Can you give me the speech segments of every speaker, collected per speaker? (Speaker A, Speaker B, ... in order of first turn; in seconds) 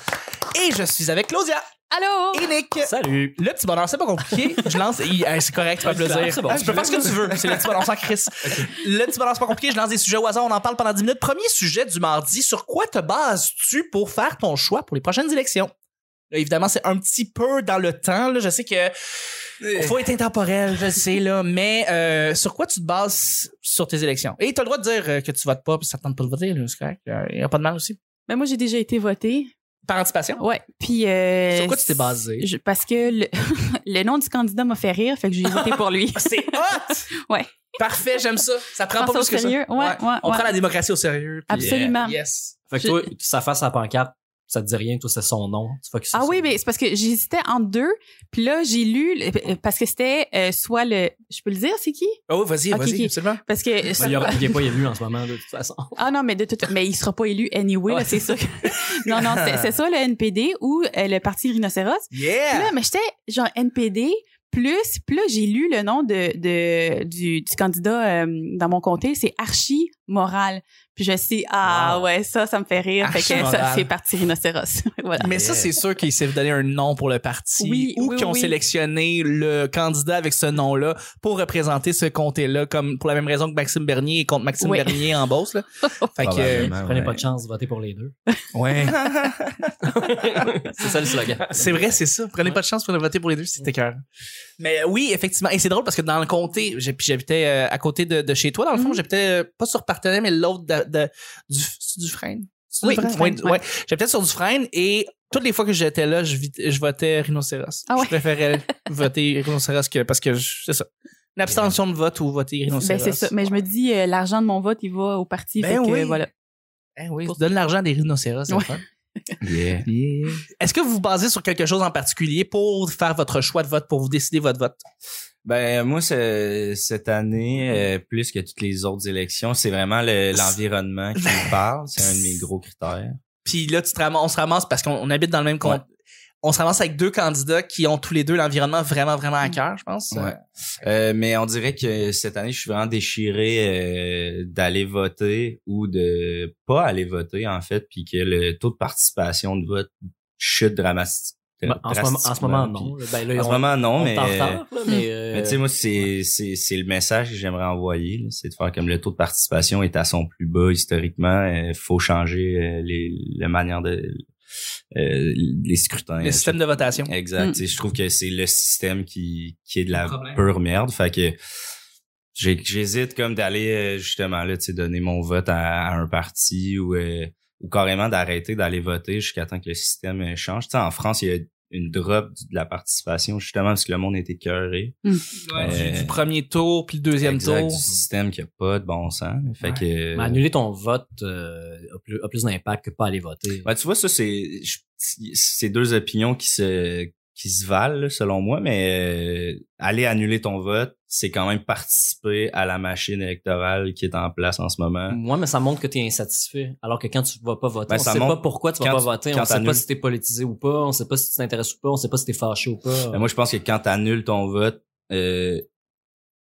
Speaker A: 0.5-15.7, 16.3-18.9, 19.7-28.0, 29.9-30.4, 31.5-32.5, 35.5-37.1, 37.8-42.6, 52.3-53.4, 54.0-54.3, 57.9-59.5, 62.1-62.7, 71.7-72.0, 73.0-73.9, 75.2-85.6, 86.2-86.7, 91.5-94.0, 94.6-113.3, 115.6-116.3, 117.0-118.8, 119.8-124.8, 131.2-132.2, 133.4-135.8, 136.4-140.4, 166.2-167.1, 170.0-170.4, 185.4-187.8
Speaker B: 1.9-2.5, 28.3-29.5, 30.4-37.7, 38.9-40.5, 41.5-42.2, 42.8-43.1, 46.1-52.2, 52.7-54.6, 56.0-75.4, 77.6-78.5, 84.6-85.2, 98.8-99.0, 102.8-103.6, 107.9-108.2, 112.8-116.3, 118.5-118.8
Speaker C: 2.8-3.4, 5.8-7.4, 42.7-46.5, 54.0-56.0, 86.6-88.1, 89.8-91.9, 151.7-156.1, 190.2-193.7, 205.1-213.2
Speaker D: 6.4-7.7, 19.6-20.0, 41.5-42.0, 75.2-75.7, 86.2-87.3, 88.5-89.7, 119.4-119.9, 125.5-133.2, 140.1-154.6, 155.3-164.2, 165.0-171.4, 172.3-185.0, 185.5-186.2, 187.2-190.4, 193.7-205.2, 207.9-209.8, 213.1-215.6